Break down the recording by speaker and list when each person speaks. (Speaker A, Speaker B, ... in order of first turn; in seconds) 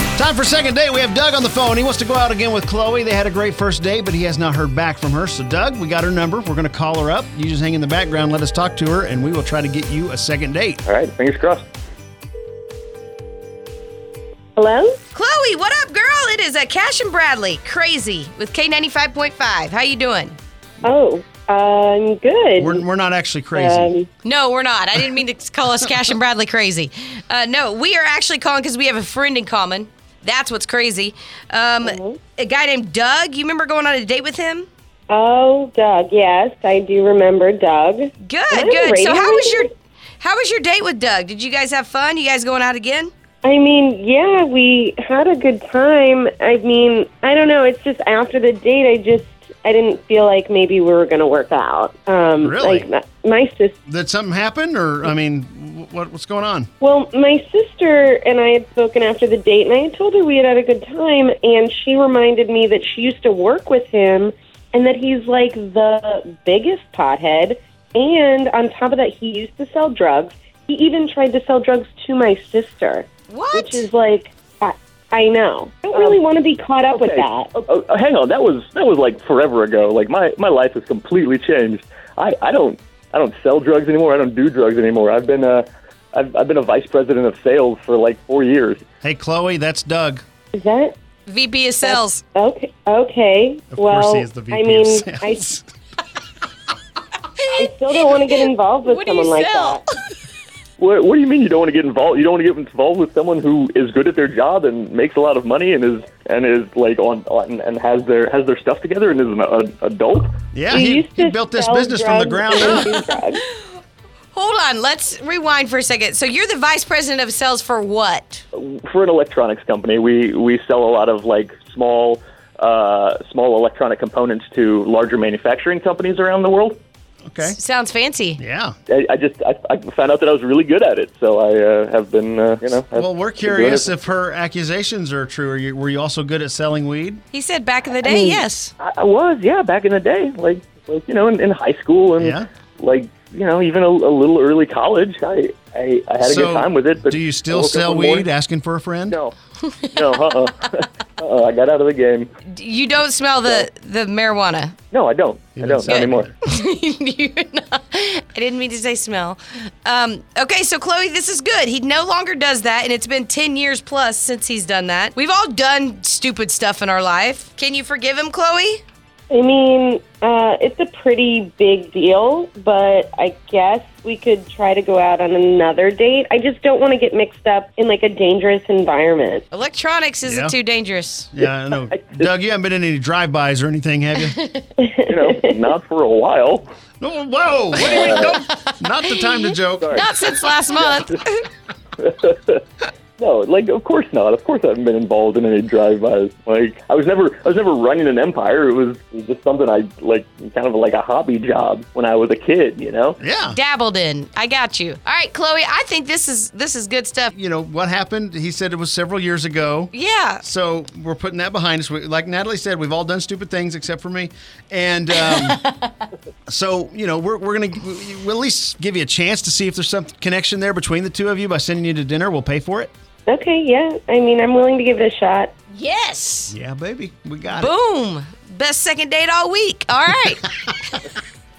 Speaker A: 0.1-10.8, 22.6-23.9, 52.4-52.9, 53.9-56.7, 89.0-90.2, 93.7-95.6, 110.5-113.0, 127.2-127.6, 128.4-128.8, 132.9-137.2, 142.2-142.5, 146.2-149.2, 155.6-156.3, 180.2-180.5, 181.3-184.4, 187.0-190.1, 203.2-203.6, 207.3-215.6, 216.5-222.9, 226.5-227.7
Speaker B: 10.9-11.7, 75.9-76.2, 76.9-88.8, 100.8-110.3, 118.5-126.8, 128.9-133.9, 138.0-148.3, 149.1-149.3, 149.9-152.3, 154.9-156.3, 181.9-182.2, 185.1-186.7, 187.8-188.3, 189.8-190.1, 192.0-192.6, 193.2-203.2
Speaker C: 14.6-15.0, 20.8-22.8, 23.5-24.1, 31.8-32.2, 35.1-39.7, 43.4-53.8, 56.8-77.5, 90.5-91.0, 91.8-95.4, 97.6-99.8, 110.7-113.4, 169.3-179.4, 184.8-185.5, 223.3-225.5
Speaker D: 15.1-20.4, 24.2-34.7, 38.2-39.7, 40.2-43.1, 73.3-73.8, 91.3-92.2, 97.4-98.2, 98.8-99.9, 114.3-118.4, 127.4-128.4, 137.3-138.7, 152.5-154.7, 155.9-168.8, 179.5-181.3, 184.3-184.7, 187.8-191.5, 203.5-207.3, 209.9-210.4, 215.4-215.9, 225.7-226.5, 227.5-231.0